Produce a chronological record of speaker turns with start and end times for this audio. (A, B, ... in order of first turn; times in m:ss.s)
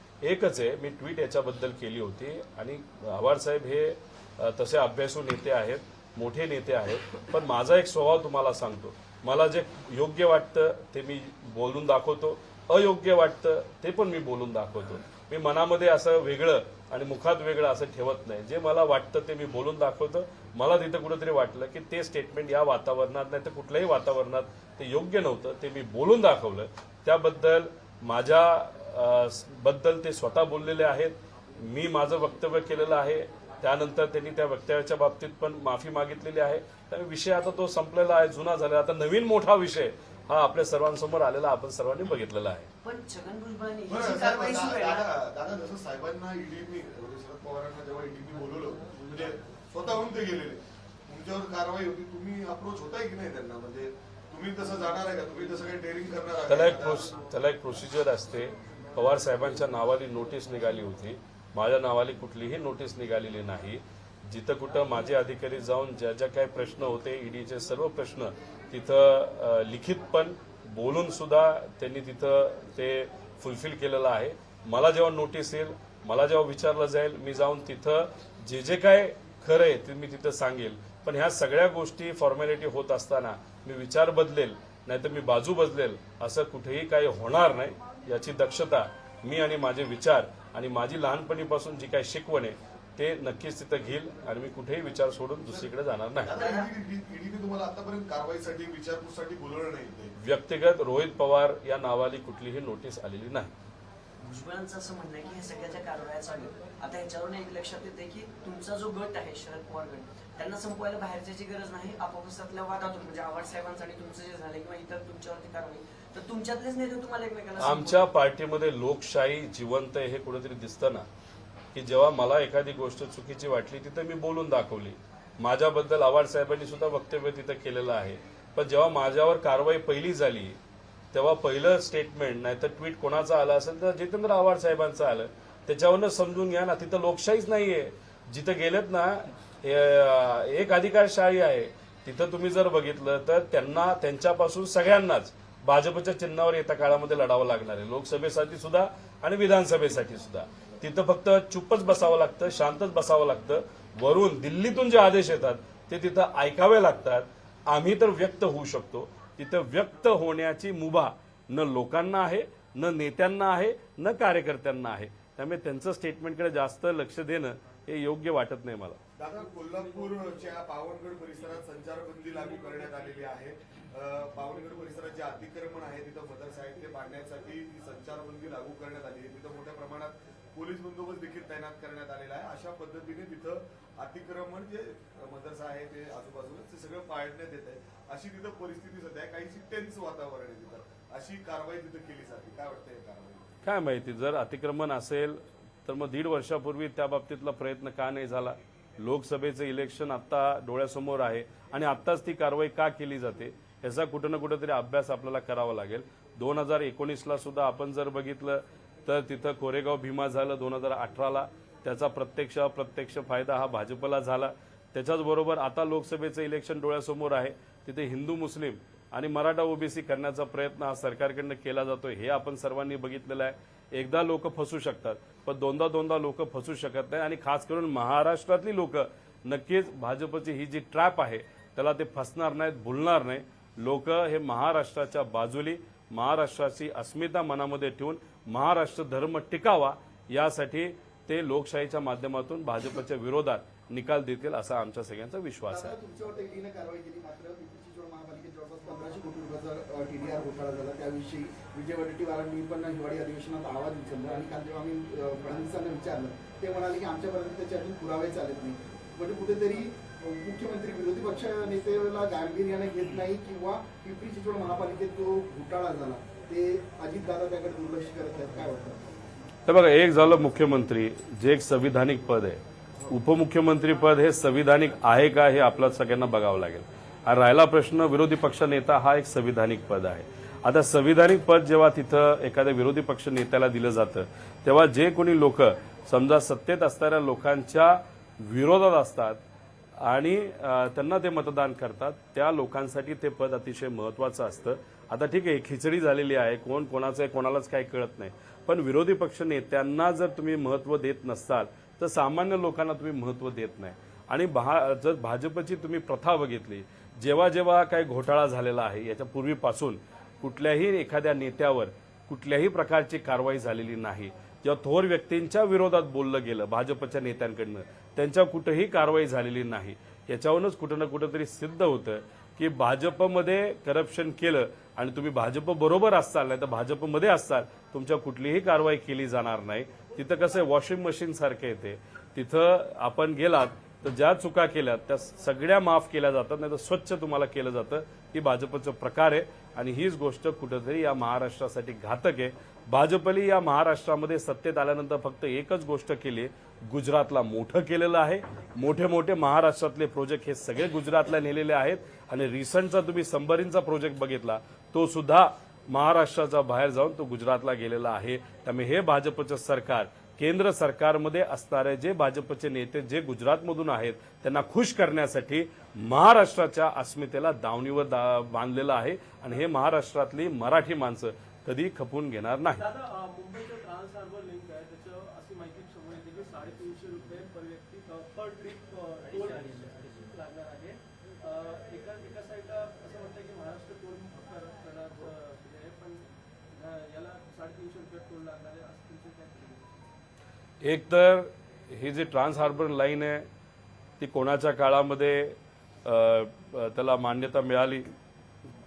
0:00.2-0:42.7 A
0:42.8-0:45.1 B
0:43.9-0:57.1 C
0:56.5-1:36.4 A
1:36.2-1:40.1 C
1:36.3-1:36.7 B
1:40.2-1:43.5 A
1:44.2-1:58.1 B
1:57.6-2:01.1 A
2:01.7-2:10.6 A
2:11.1-2:49.0 A
2:49.2-3:13.5 C
3:13.6-4:06.0 A
4:05.7-4:29.1 D
4:29.7-4:49.4 A
4:50.0-6:12.8 A
6:12.8-6:29.9 E
6:30.8-6:33.5 A
6:34.2-6:38.1 A